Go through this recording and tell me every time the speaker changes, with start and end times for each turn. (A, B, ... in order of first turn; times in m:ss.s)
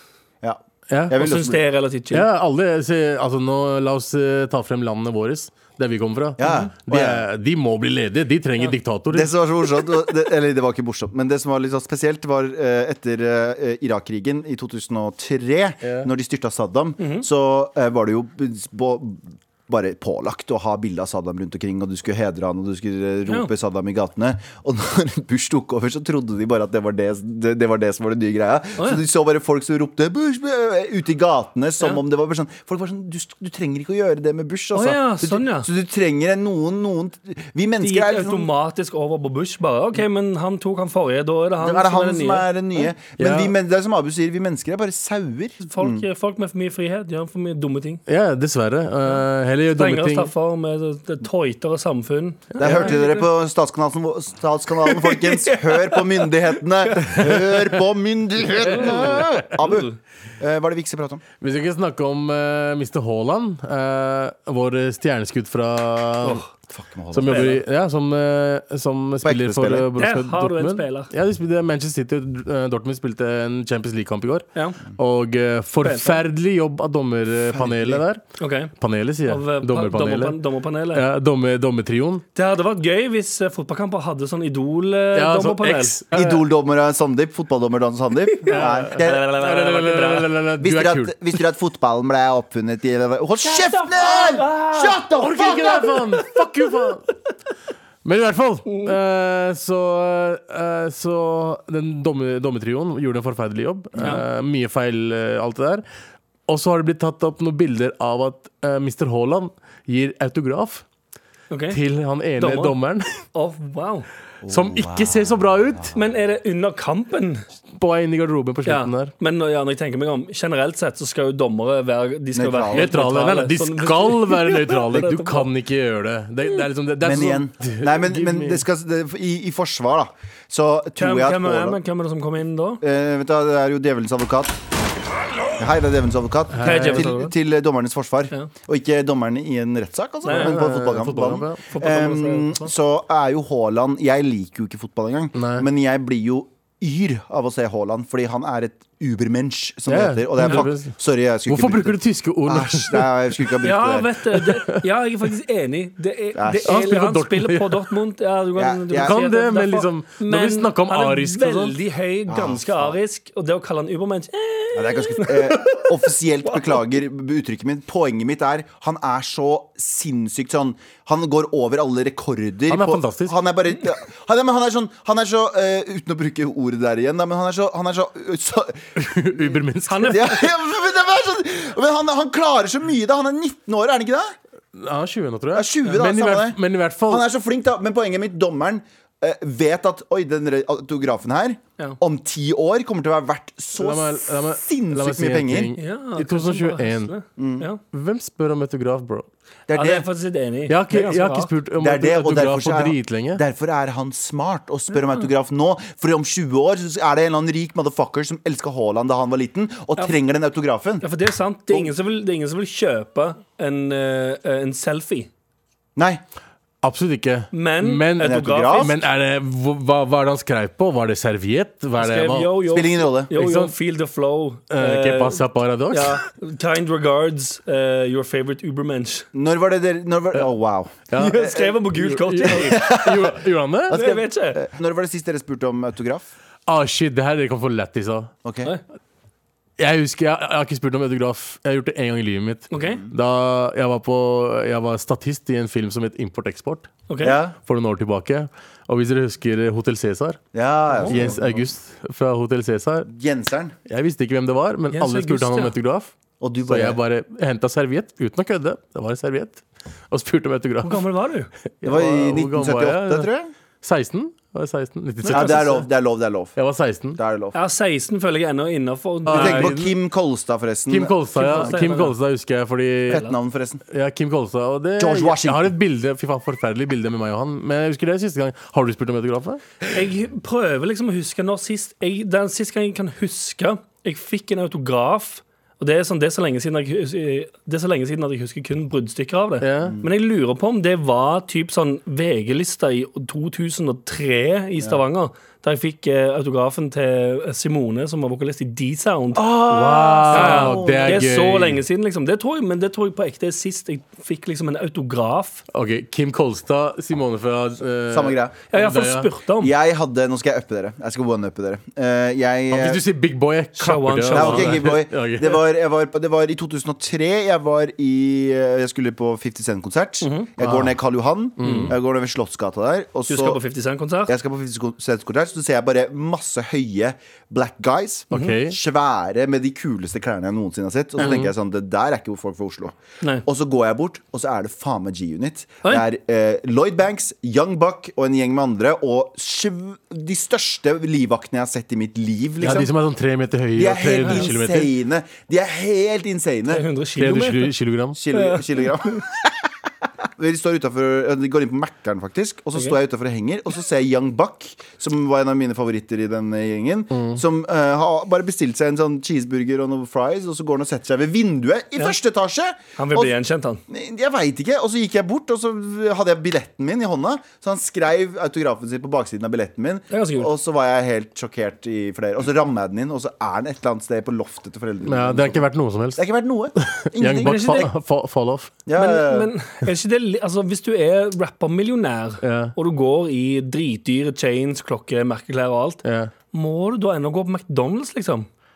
0:00.4-0:01.6 A
0:00.9-0:01.2 B
0:01.1-0:02.2 C
0:02.1-0:09.3 B
0:06.4-0:07.2 A
0:06.4-0:06.7 C
0:09.1-0:38.5 A
0:15.8-0:16.1 B
0:17.0-0:17.2 C
0:34.7-0:35.7 C
0:37.8-0:42.8 C
0:41.6-0:46.0 A
0:43.2-0:43.5 B
0:45.6-0:48.0 C
0:48.1-0:50.3 B
0:49.7-0:53.2 C
0:52.6-0:52.9 B
0:52.6-1:01.2 A
0:54.8-0:57.3 C
0:58.6-1:00.0 C
1:01.4-1:06.4 B
1:06.7-1:07.6 A
1:07.1-1:18.2 B
1:07.3-1:07.5 C
1:09.2-1:09.9 A
1:10.0-1:11.1 C
1:15.8-1:16.2 C
1:17.5-1:18.0 A
1:18.4-1:18.7 C
1:18.8-1:20.4 B
1:19.2-1:21.0 C
1:20.9-1:22.2 B
1:22.3-1:26.0 C
1:25.1-1:26.4 B
1:26.1-1:29.2 A
1:28.3-1:30.3 C
1:28.5-1:31.3 B
1:30.6-1:35.8 A
1:33.4-1:36.0 C
1:35.1-1:37.1 B
1:38.0-1:45.8 B
1:46.5-1:50.8 B
1:51.5-1:51.8 C
1:51.7-1:53.1 B
1:52.4-1:52.7 C
1:53.3-1:54.1 C
1:54.4-1:55.9 A
1:54.5-1:55.9 B
1:55.9-1:57.4 C
1:57.8-1:59.1 B
1:58.6-2:05.4 C
2:02.3-2:02.9 A
2:02.7-2:08.6 B
2:07.0-2:11.8 A
2:11.0-2:12.8 C
2:12.8-2:14.5 A
2:15.6-2:34.1 A
2:16.5-2:17.1 B
2:16.6-2:17.3 C
2:20.2-2:20.6 C
2:20.3-2:21.6 B
2:21.7-2:22.7 C
2:25.4-2:25.7 B
2:29.9-2:30.9 B
2:31.4-2:33.4 B
2:33.6-2:46.6 C
2:34.4-2:34.8 B
2:36.3-2:36.9 A
2:36.6-2:37.9 B
2:38.6-2:39.2 A
2:38.9-2:41.8 B
2:42.3-2:43.0 A
2:44.7-2:59.0 A
2:52.7-2:53.4 B
2:59.0-3:00.5 B
2:59.9-3:00.3 C
3:00.1-3:04.4 A
3:04.7-3:07.2 B
3:05.5-3:15.7 A
3:13.8-3:17.1 B
3:15.8-3:17.8 C
3:17.4-3:17.6 A
3:17.9-3:19.3 B
3:19.7-3:20.0 A
3:19.7-3:21.5 C
3:20.7-3:23.4 B
3:21.8-3:31.0 A
3:25.0-3:25.2 C
3:31.0-3:35.3 C
3:36.0-3:36.2 A
3:36.8-3:42.6 B
3:37.5-3:39.0 C
3:38.2-3:39.0 A
3:42.0-3:49.3 C
3:42.7-3:43.3 A
3:43.3-3:43.7 B
3:44.7-3:46.2 B
3:49.3-3:51.7 A
3:51.1-3:54.0 B
3:51.1-3:53.4 C
3:52.5-3:53.3 A
3:53.9-3:56.3 A
3:53.9-3:54.6 C
3:56.7-3:58.3 B
3:58.4-3:58.7 A
3:59.8-4:06.9 B
4:02.7-4:03.0 C
4:07.1-4:07.4 C
4:07.2-4:07.6 A
4:07.6-4:10.4 B
4:10.5-4:11.6 A
4:10.9-4:11.3 C
4:11.0-4:13.1 B
4:13.1-4:13.7 A
4:13.9-4:16.1 B
4:14.9-4:15.7 C
4:16.4-4:17.0 A
4:16.6-4:21.1 B
4:20.8-4:21.5 C
4:21.8-4:23.3 B
4:21.8-4:23.5 A
4:23.8-4:25.8 B
4:25.2-4:25.8 C
4:25.3-4:26.6 A
4:26.6-4:27.2 B
4:27.2-4:27.6 A
4:27.5-4:29.7 C
4:29.2-4:29.9 B
4:29.3-4:31.9 A
4:30.9-4:33.2 B
4:31.3-4:32.1 C
4:33.1-4:33.8 A
4:33.9-4:39.6 B
4:35.0-4:35.7 A
4:39.9-4:59.5 C
4:49.6-4:50.0 B
4:49.8-4:50.1 A
4:59.3-5:01.2 A
4:59.4-5:01.8 B
5:00.2-5:05.6 C
5:05.7-5:09.3 B
5:08.1-5:08.5 A
5:08.7-5:09.7 C
5:09.6-5:13.0 A
5:12.7-5:15.6 B
5:13.8-5:14.9 C
5:14.3-5:23.6 A
5:20.2-5:20.5 C
5:20.6-5:20.9 B
5:21.6-5:21.9 B
5:21.6-5:21.9 C
5:23.3-5:24.3 C
5:24.3-5:42.9 A
5:28.3-5:28.8 B
5:31.2-5:31.5 B
5:42.6-5:44.9 B
5:43.7-5:46.8 A
5:46.7-5:47.7 C
5:47.2-5:48.2 B
5:48.1-5:49.5 A
5:48.3-5:49.2 C
5:50.4-6:03.3 A
5:57.1-5:57.4 B
6:03.0-6:03.8 C
6:03.9-6:15.6 A
6:10.1-6:10.5 C
6:15.0-6:16.2 B
6:16.2-6:17.9 A
6:16.8-6:18.7 B
6:17.3-6:17.9 C
6:18.8-6:19.5 A
6:19.0-6:28.5 C
6:22.4-6:22.7 B
6:26.0-6:26.3 B